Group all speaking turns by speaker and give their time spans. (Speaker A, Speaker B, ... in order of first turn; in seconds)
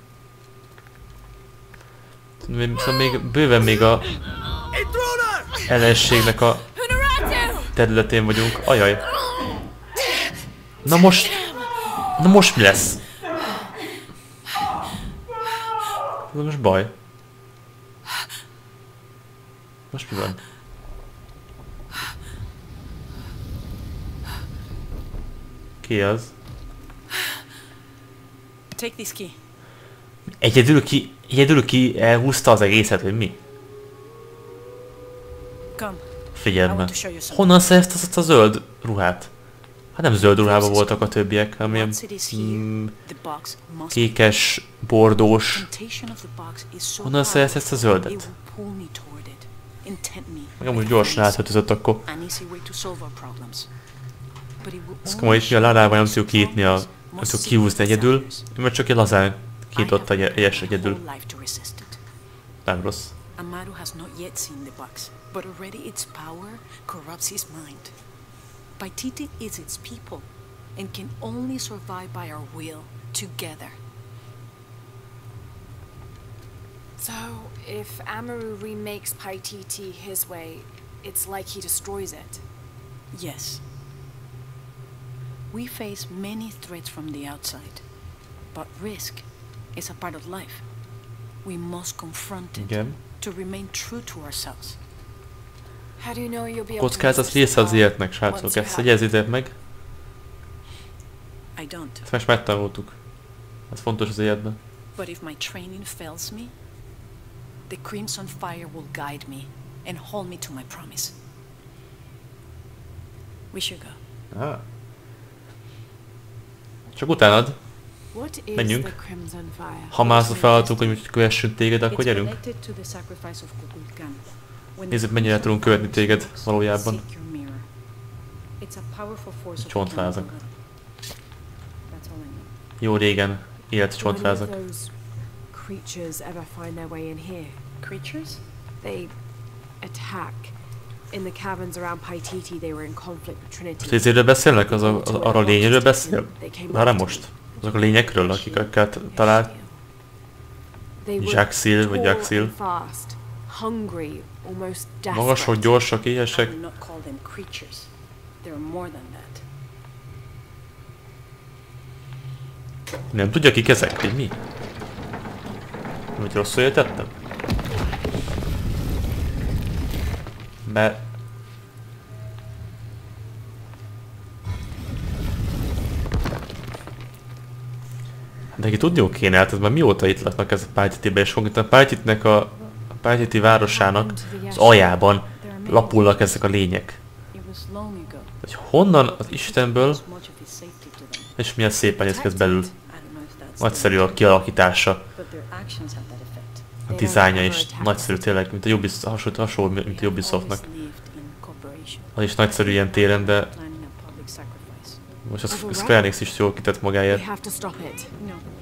Speaker A: 2.4-4.1, 5.7-6.7, 7.8-9.0, 10.8-11.4, 12.2-13.0, 16.3-16.9, 19.9-20.4, 25.8-26.3, 30.4-33.4, 36.4-39.3, 40.0-43.0, 43.9-45.7, 47.0-48.3, 50.6-52.0, 55.0-61.0, 62.6-63.1, 92.5-93.0, 96.8-99.5, 102.0-103.0, 103.7-104.6, 114.3-114.6, 116.9-117.6, 118.5-118.9, 119.9-122.4, 124.9-127.0, 129.6-130.3, 132.8-134.5, 143.8-149.5, 151.2-152.5, 155.1-156.6, 163.1-164.3, 166.2-167.1, 170.7-171.0, 178.6-187.0, 188.4-190.0, 191.4-192.7, 193.6-195.0, 196.9-200.6, 202.2-203.5, 205.2-207.2
Speaker B: 7.4-7.7, 77.0-82.4, 96.0-98.8, 118.1-121.0, 134.0-134.9, 135.5-137.6, 138.8-139.1, 139.8-140.6, 141.1-147.3, 149.2-149.7, 151.0-155.8, 183.6-184.9, 196.9-198.2, 205.5-206.1, 207.1-208.1
Speaker C: 28.7-29.4, 35.8-36.1, 36.6-37.7, 40.2-44.5, 45.5-53.7, 54.6-58.5, 59.7-62.0, 63.4-68.0, 68.8-73.8, 83.1-83.6, 85.5-87.8, 88.5-90.7, 91.4-94.8, 98.5-98.8, 101.5-102.1, 105.0-106.5, 107.7-111.2, 113.5-114.0, 121.9-127.7, 128.6-130.5, 131.9-132.5, 137.8-138.4, 156.3-157.9, 158.4-159.4, 185.4-186.6, 187.3-188.3, 188.9-191.3, 192.1-194.3, 195.2-196.8, 199.9-205.0, 208.2-208.4